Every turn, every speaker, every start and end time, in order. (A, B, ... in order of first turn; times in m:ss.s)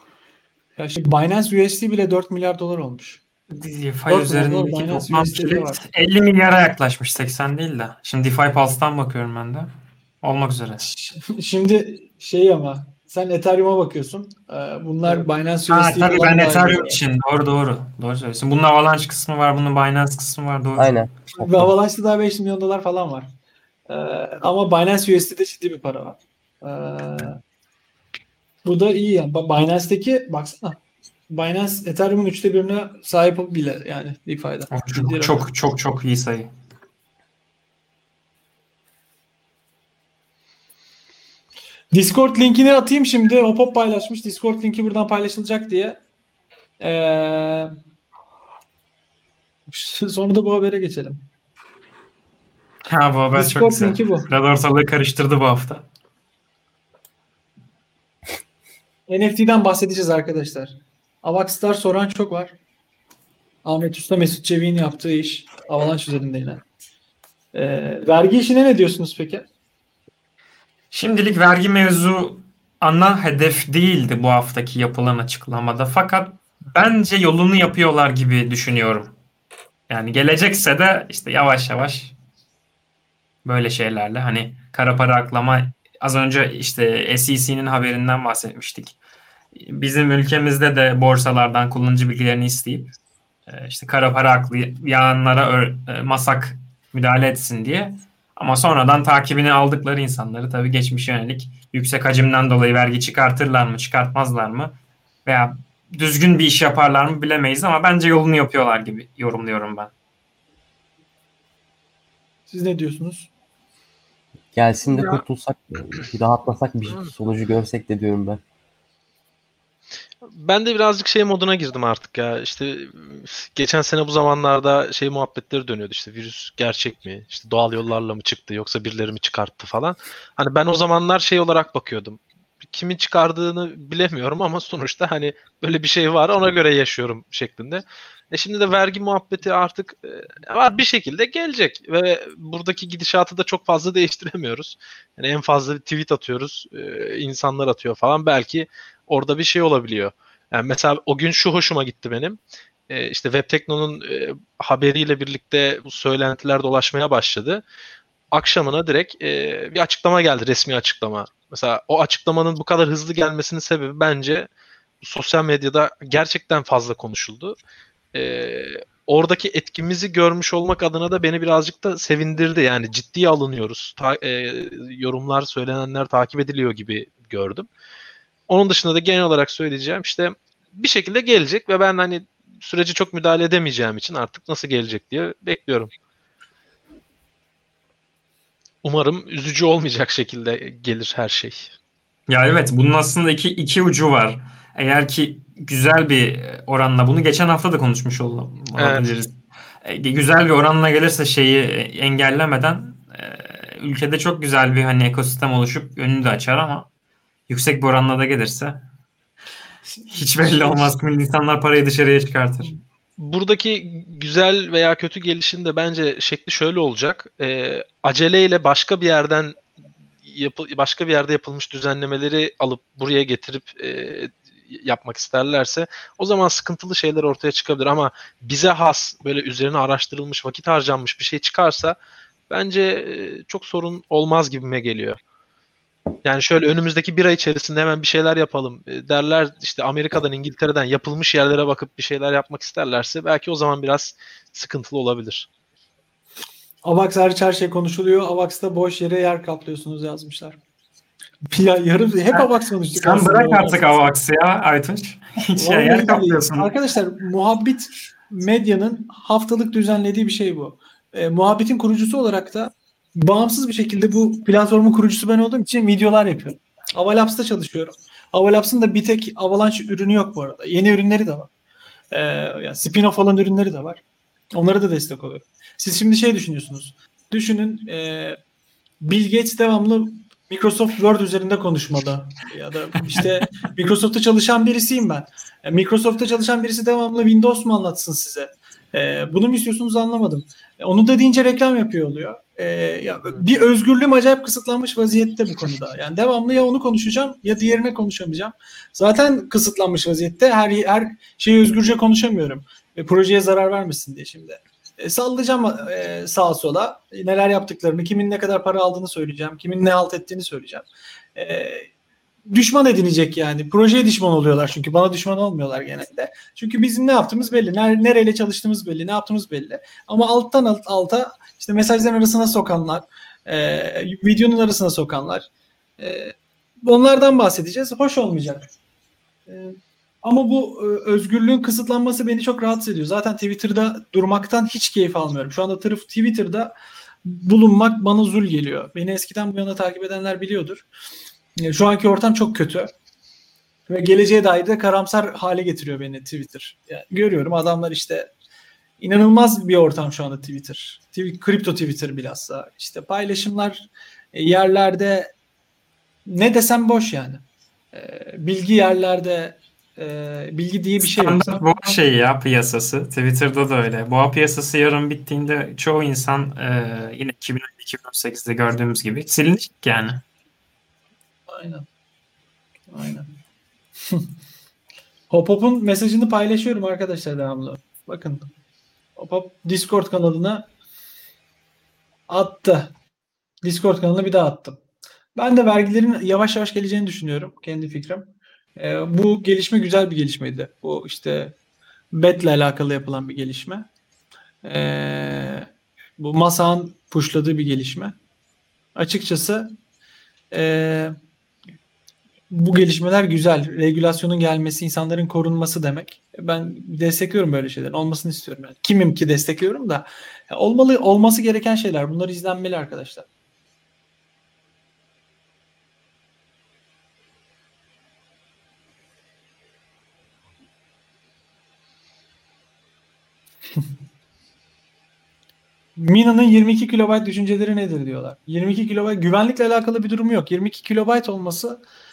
0:00.8-0:03.2 A
0:03.5-0:09.7 B
0:04.1-0:05.8 A
0:10.2-0:10.9 B
0:10.8-0:17.0 A
0:15.7-0:20.9 B
0:20.8-0:21.7 C
0:21.4-0:23.3 A
0:23.9-0:27.4 A
0:28.6-0:35.5 A
0:34.7-0:36.5 B
0:41.9-0:46.0 A
0:46.8-0:47.7 A
0:49.7-0:51.2 A
0:52.9-0:55.8 B
0:53.3-0:54.3 A
0:59.1-1:02.5 A
1:03.6-1:06.6 A
1:07.5-1:09.4 A
1:10.9-1:19.1 B
1:19.9-1:22.1 B
1:23.4-1:29.0 B
1:29.5-1:32.9 B
1:33.5-1:49.9 B
1:52.5-1:53.3 A
1:54.5-1:58.4 C
2:00.2-2:37.6 D
2:38.3-2:44.5 D
2:45.0-2:47.6 D
2:48.1-2:57.7 D
2:58.5-3:05.9 D
3:08.8-3:11.7 D
3:12.3-3:26.9 B
3:18.8-3:19.1 D
3:27.5-3:28.8 B
3:30.0-3:30.9 A
3:30.1-3:32.8 B
3:33.2-3:39.6 D
3:40.2-3:52.0 D
3:52.5-3:55.2 D
3:56.2-4:05.5 D
4:06.8-4:10.6 A
4:11.5-4:14.1 A
4:12.3-4:16.7 B
4:15.6-4:31.5 A
4:32.1-4:34.0 A
4:34.5-4:38.4 A
4:39.0-5:11.9 A
5:12.5-5:25.4 A
5:26.0-5:28.7 A
5:29.5-5:36.7 A
5:37.2-5:40.8 A
5:41.6-5:42.9 A
5:43.9-5:48.3 A
5:49.0-5:55.3 A
5:56.3-5:57.4 A
5:57.9-6:01.6 A
6:01.0-6:10.2 B
6:11.5-6:11.8 A
6:12.9-6:13.3 A
6:15.3-6:18.5 A
6:19.2-6:20.7 A
6:22.3-6:22.9 A
6:23.6-6:24.8 A
6:25.4-6:31.5 A
6:32.1-6:33.9 A
6:34.6-6:38.1 A
6:39.0-6:39.7 A
6:40.5-6:41.1 A
6:42.5-6:53.2 A
7:06.0-7:11.8 A